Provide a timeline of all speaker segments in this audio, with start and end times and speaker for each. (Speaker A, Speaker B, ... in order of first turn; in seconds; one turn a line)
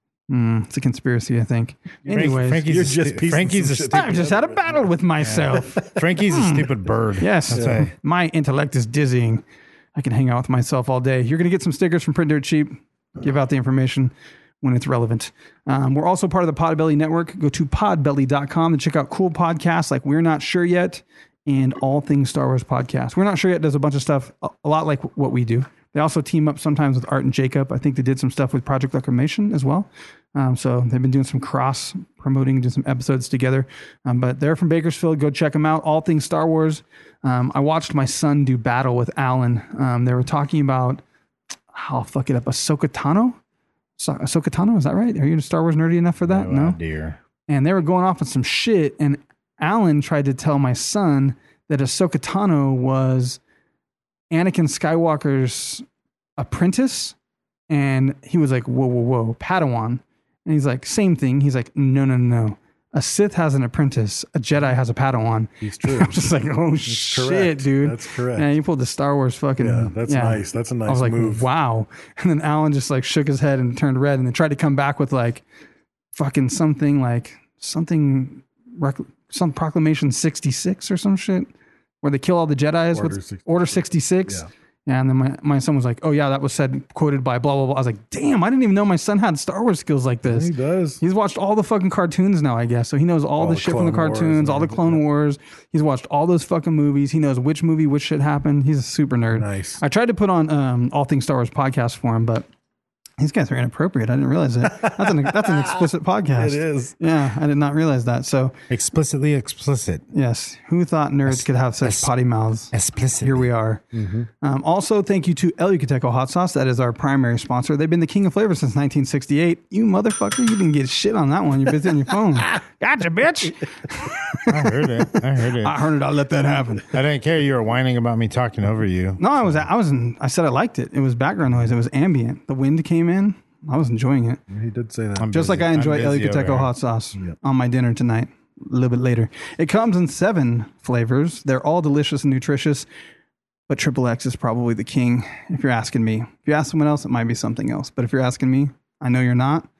Speaker A: 0.3-2.7
Speaker B: 2.0-6.0
Speaker C: 2.1-4.2
Speaker A: 3.9-9.4
Speaker C: 5.2-7.9
Speaker B: 7.5-7.8
Speaker A: 9.9-41.0
Speaker A: 41.7-43.4
Speaker A: 44.0-46.8
Speaker C: 46.2-47.2
Speaker A: 47.5-53.4
Speaker A: 54.3-55.8
Speaker A: 56.4-57.1
Speaker A: 57.7-75.4
Speaker B: 65.6-66.1
Speaker B: 66.9-68.5
Speaker B: 69.6-71.5
Speaker A: 76.1-81.5
Speaker A: 82.0-102.5
Speaker B: 82.9-84.5
Speaker B: 90.2-91.0
Speaker B: 93.4-95.0
Speaker B: 99.3-99.8
Speaker A: 103.2-108.5
Speaker B: 104.7-106.9
Speaker C: 108.7-110.0
Speaker A: 110.1-113.8
Speaker C: 111.3-112.1
Speaker C: 112.7-113.5
Speaker B: 113.9-114.3
Speaker A: 114.4-126.9
Speaker C: 124.5-125.8
Speaker C: 126.9-129.6
Speaker A: 129.2-134.4
Speaker B: 134.5-135.4
Speaker C: 135.2-136.7
Speaker A: 135.3-142.9
Speaker A: 143.7-149.7